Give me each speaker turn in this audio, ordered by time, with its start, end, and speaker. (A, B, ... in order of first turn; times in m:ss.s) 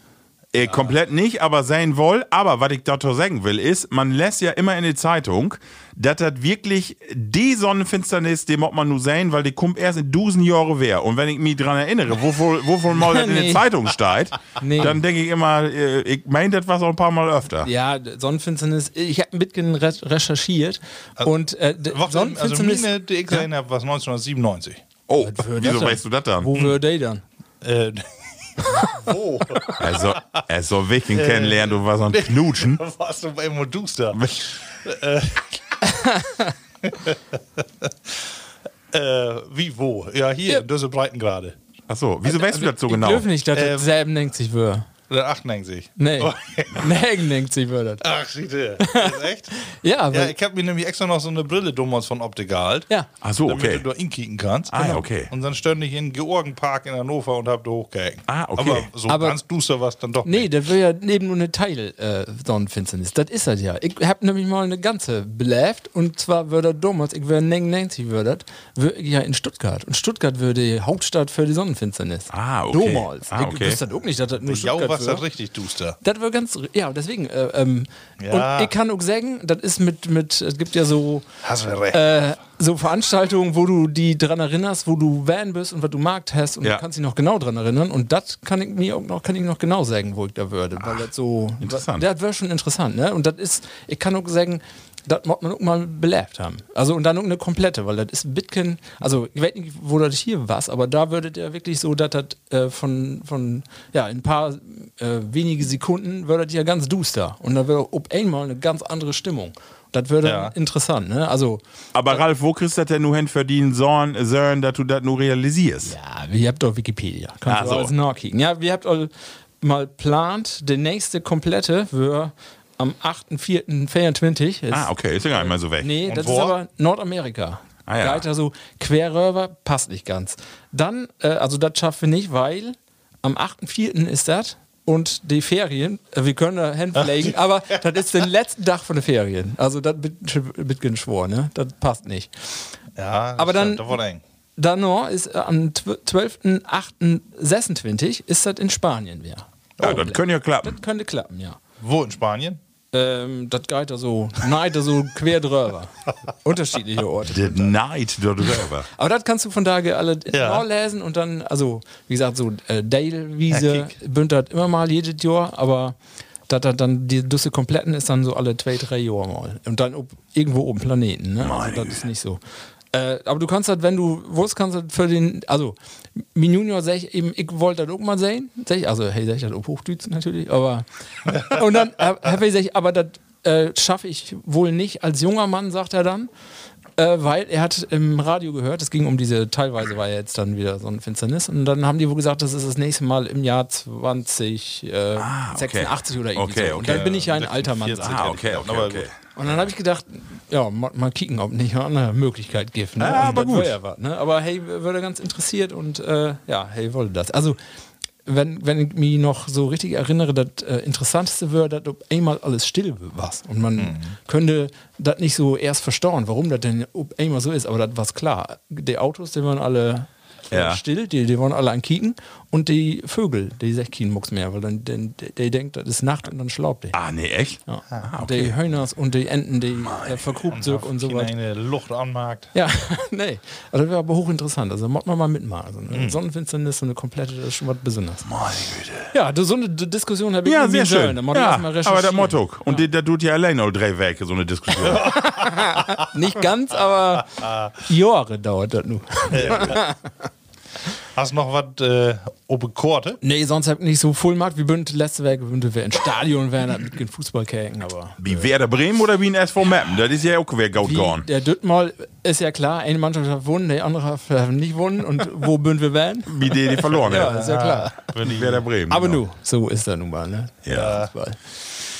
0:00.5-0:17.7 A
0:00.6-0:00.9 B
0:12.9-0:13.6 C
0:14.6-0:15.0 C
0:17.6-0:23.4 C
0:21.2-0:24.8 B
0:25.1-0:26.5 A
0:25.2-0:27.2 C
0:27.6-0:28.0 B
0:28.6-0:30.4 B
0:29.8-0:32.8 A
0:31.1-0:35.6 B
0:35.8-0:36.5 C
0:36.8-0:37.2 B
0:38.9-0:41.6 B
0:41.9-0:43.3 A
0:42.3-0:44.9 C
0:43.5-0:43.9 B
0:45.1-0:47.0 B
0:46.0-0:48.0 C
0:48.0-0:52.9 B
0:48.8-0:50.3 C
0:53.2-0:53.8 A
0:53.4-1:00.5 B
0:54.7-0:55.3 A
0:58.3-0:58.9 A
0:59.1-0:59.4 C
1:00.2-1:15.2 C
1:12.3-1:13.8 A
1:14.4-1:16.0 B
1:16.0-1:21.2 C
1:18.2-1:18.7 B
1:21.4-1:22.2 B
1:21.9-1:51.6 C
1:31.6-1:32.0 A
1:50.2-1:50.5 B
1:51.9-1:55.9 A
1:55.8-2:22.7 C
1:57.5-1:57.9 A
2:04.7-2:05.9 A
2:06.0-2:06.6 B
2:07.9-2:08.2 A
2:23.0-2:24.2 B
2:23.4-2:24.0 C
2:24.6-2:31.6 C
2:29.8-2:30.8 A
2:31.8-2:32.6 B
2:32.9-2:37.7 C
2:37.3-2:38.9 A
2:38.9-2:46.0 C
2:40.3-2:40.6 B
2:43.5-2:43.9 B
2:46.5-2:52.4 C
2:51.4-2:52.0 A
2:52.9-3:06.3 C
3:07.0-3:18.3 C
3:15.2-3:17.1 A
3:16.8-3:19.1 B
3:18.0-3:19.6 A
3:19.4-3:27.6 C
3:23.0-3:23.7 A
3:28.2-3:47.0 C
3:33.8-3:34.1 B
3:40.5-3:40.8 A
3:46.9-3:48.5 A
3:47.7-3:51.3 C
3:49.8-3:50.3 A
3:50.5-3:52.5 B
3:52.5-3:58.3 C
3:55.9-3:56.2 B
3:58.2-3:59.1 A
3:59.1-4:02.8 C
4:00.4-4:05.2 A
4:04.9-4:10.0 C
4:07.4-4:07.7 B
4:09.3-4:09.9 B
4:11.1-4:13.2 B
4:13.2-4:18.2 C
4:18.2-4:21.3 A
4:20.8-4:28.0 C
4:26.2-4:27.4 A
4:27.1-4:28.6 B
4:28.2-4:29.2 A
4:28.9-4:31.4 C
4:30.6-4:31.0 A
4:30.7-4:31.1 B